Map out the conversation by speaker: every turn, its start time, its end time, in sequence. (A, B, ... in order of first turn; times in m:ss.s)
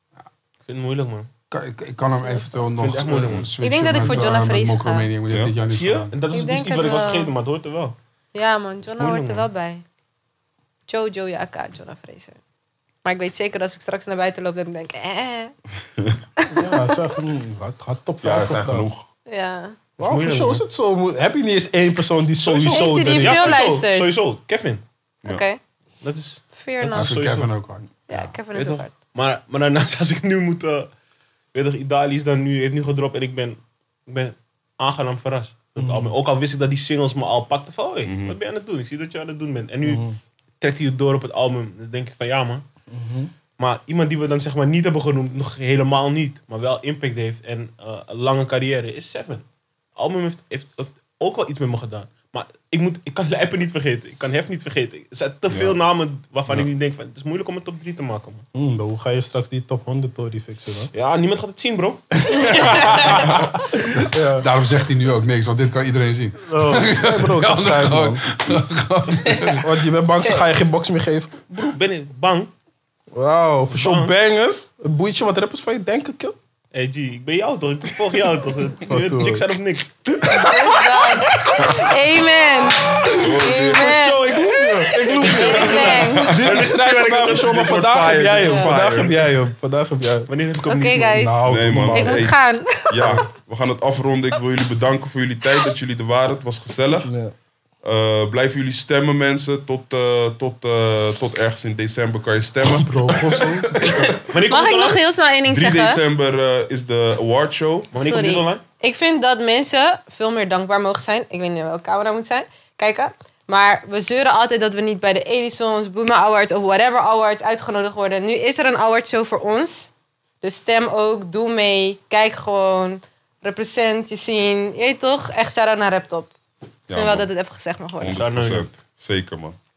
0:00.7-0:01.3 A
0:01.5-0:06.1 B
0:02.1-0:02.6 C
0:02.8-0:03.5 A
0:03.2-0:03.5 D
0:03.6-0:05.1 C
0:05.3-0:05.5 D
0:05.7-0:08.0 A
0:06.3-0:07.3 C
0:08.3-0:09.8 C
0:09.0-0:09.5 A
0:10.9-0:12.4 C
0:13.0-0:15.5 C
0:16.4-0:17.0 C
0:16.5-0:18.9 E
0:18.2-0:19.0 D
0:19.3-0:19.8 C
0:20.0-0:23.6 E
0:20.0-0:20.6 A
0:22.4-0:24.8 A
0:22.7-0:24.1 C
0:25.2-0:25.6 C
0:26.0-0:27.5 A
0:26.6-0:27.2 C
0:27.0-0:28.4 B
0:28.1-0:28.9 C
0:28.5-0:30.9 A
0:31.5-0:40.0 A
0:35.8-0:36.1 E
0:38.0-0:38.4 D
0:39.8-0:40.2 E
0:40.6-0:42.7 A
0:42.9-0:43.3 E
0:43.6-0:49.4 A
0:50.0-0:58.4 A
0:55.5-0:55.8 D
0:58.6-1:00.9 E
1:00.9-1:03.5 A
1:02.1-1:04.5 E
1:02.5-1:02.9 C
1:03.9-1:09.8 B
1:06.5-1:08.6 E
1:09.6-1:11.4 E
1:11.5-1:12.5 A
1:13.1-1:16.4 E
1:13.7-1:14.1 A
1:16.7-1:20.0 A
1:18.8-1:19.4 E
1:20.1-1:21.6 E
1:20.2-1:26.4 C
1:23.1-1:29.3 D
1:23.7-1:30.3 E
1:25.1-1:27.9 A
1:28.4-1:28.8 C
1:30.3-1:31.2 A
1:30.7-1:33.2 C
1:31.1-1:32.3 E
1:31.5-1:37.2 D
1:37.0-1:37.4 E
1:37.8-1:44.1 D
1:42.7-1:44.2 E
1:43.8-1:45.0 A
1:44.5-1:46.0 C
1:45.5-1:47.9 D
1:47.9-1:48.6 A
1:48.0-2:06.3 C
2:06.9-2:07.3 D
2:06.9-2:08.2 C
2:08.0-2:09.6 D
2:08.1-2:08.7 A